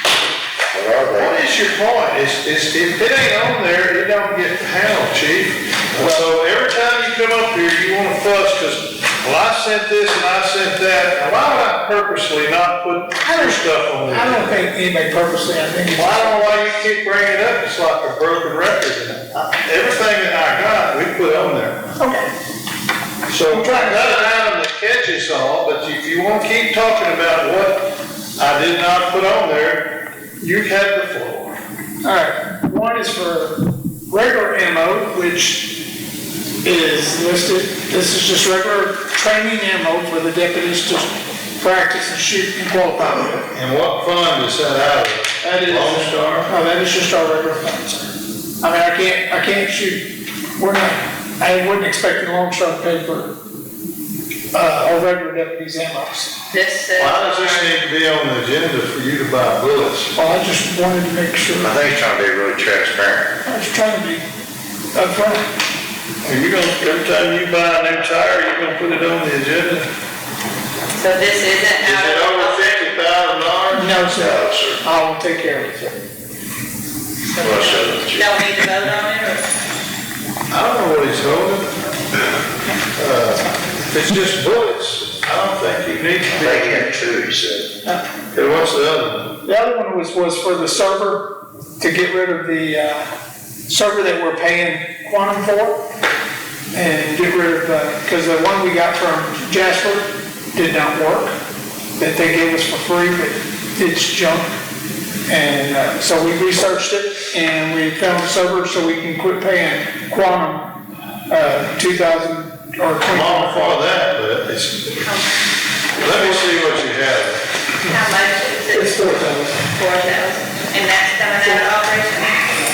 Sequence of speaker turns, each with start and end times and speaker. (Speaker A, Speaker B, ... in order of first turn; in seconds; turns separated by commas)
Speaker A: 0.7-1.5, Speaker B: 1.2-14.6, Speaker C: 13.2-16.5, Speaker B: 16.0-21.8, Speaker C: 22.0-22.3, Speaker B: 23.3-31.6, Speaker C: 23.5-24.3, Speaker C: 32.0-35.8, Speaker C: 36.6-43.4, Speaker B: 43.5-46.5, Speaker C: 45.4-48.1, Speaker C: 48.6-53.3, Speaker C: 54.5-56.4, Speaker D: 56.5-57.7, Speaker B: 57.0-60.1, Speaker C: 60.2-61.8, Speaker A: 61.6-63.4, Speaker C: 63.5-64.2, Speaker C: 64.9-65.5, Speaker B: 66.2-69.9, Speaker D: 71.0-73.0, Speaker B: 71.8-74.7, Speaker C: 73.7-76.0, Speaker A: 74.2-74.8, Speaker D: 77.3-79.5, Speaker A: 77.4-78.3, Speaker B: 77.7-78.0, Speaker B: 80.5-81.7, Speaker B: 83.0-86.9, Speaker A: 86.3-87.7, Speaker B: 88.3-89.3, Speaker C: 89.4-93.1, Speaker C: 93.7-95.8, Speaker C: 96.7-101.3, Speaker C: 102.0-104.5, Speaker C: 105.3-110.7, Speaker C: 111.3-113.8, Speaker B: 113.1-114.9, Speaker D: 115.0-115.3, Speaker B: 116.0-117.4, Speaker C: 116.1-116.4, Speaker D: 117.9-119.2, Speaker C: 118.7-119.6, Speaker D: 119.7-122.5